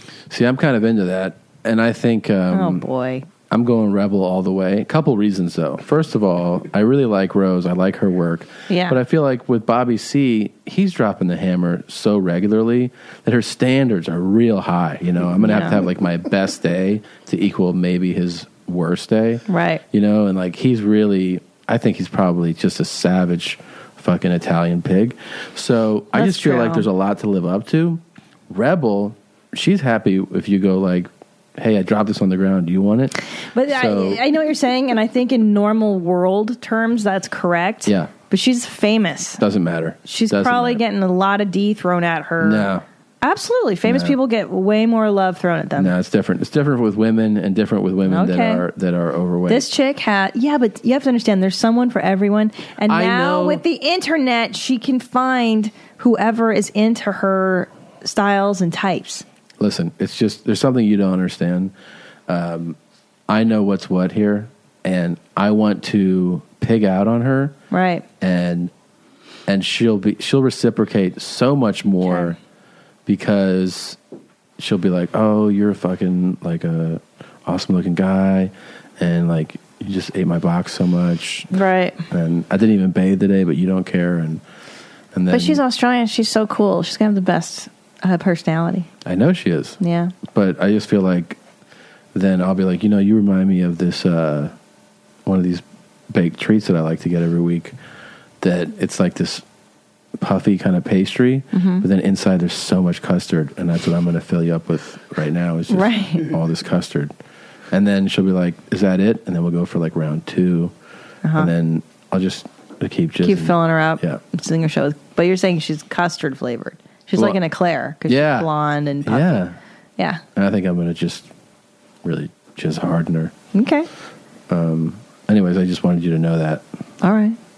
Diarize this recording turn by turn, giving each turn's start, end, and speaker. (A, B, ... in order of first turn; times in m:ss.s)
0:00.3-0:02.8 A
0:02.5-0:03.2 B
0:03.5-0:33.1 A
0:15.4-0:15.8 B
0:19.5-0:19.8 B
0:26.2-0:26.8 B
0:33.6-0:39.4 B
0:33.6-0:34.2 A
0:37.8-0:38.1 A
0:39.4-0:40.8 A
0:40.1-0:42.7 B
0:42.4-0:42.8 A
0:43.2-0:45.9 B
0:43.8-0:44.2 A
0:45.8-0:49.7 A
0:48.1-0:48.6 B
0:49.5-0:59.2 B
0:52.8-0:53.6 A
0:59.6-1:01.7 A
1:02.3-1:02.8 A
1:03.3-1:07.5 A
1:07.7-1:08.0 B
1:08.2-1:08.7 A
1:09.5-1:12.4 A
1:13.0-1:14.0 A
1:14.6-1:21.5 A
1:21.6-1:21.9 B
1:22.1-1:24.4 A
1:25.1-1:25.6 A
1:25.3-1:28.8 B
1:29.0-1:31.4 A
1:29.8-1:30.1 B
1:32.1-1:34.5 A
1:35.2-1:37.8 A
1:38.4-1:39.4 A
1:40.2-1:47.1 A
1:41.5-1:41.8 B
1:45.7-1:46.1 B
1:47.7-1:50.7 A
1:51.3-1:54.2 A
1:53.2-1:59.3 B
1:58.0-1:58.5 A
1:59.0-1:59.6 A
2:00.4-2:01.3 A
2:02.0-2:03.3 A
2:03.5-2:03.8 B
2:04.5-2:06.6 A
2:07.0-2:07.3 B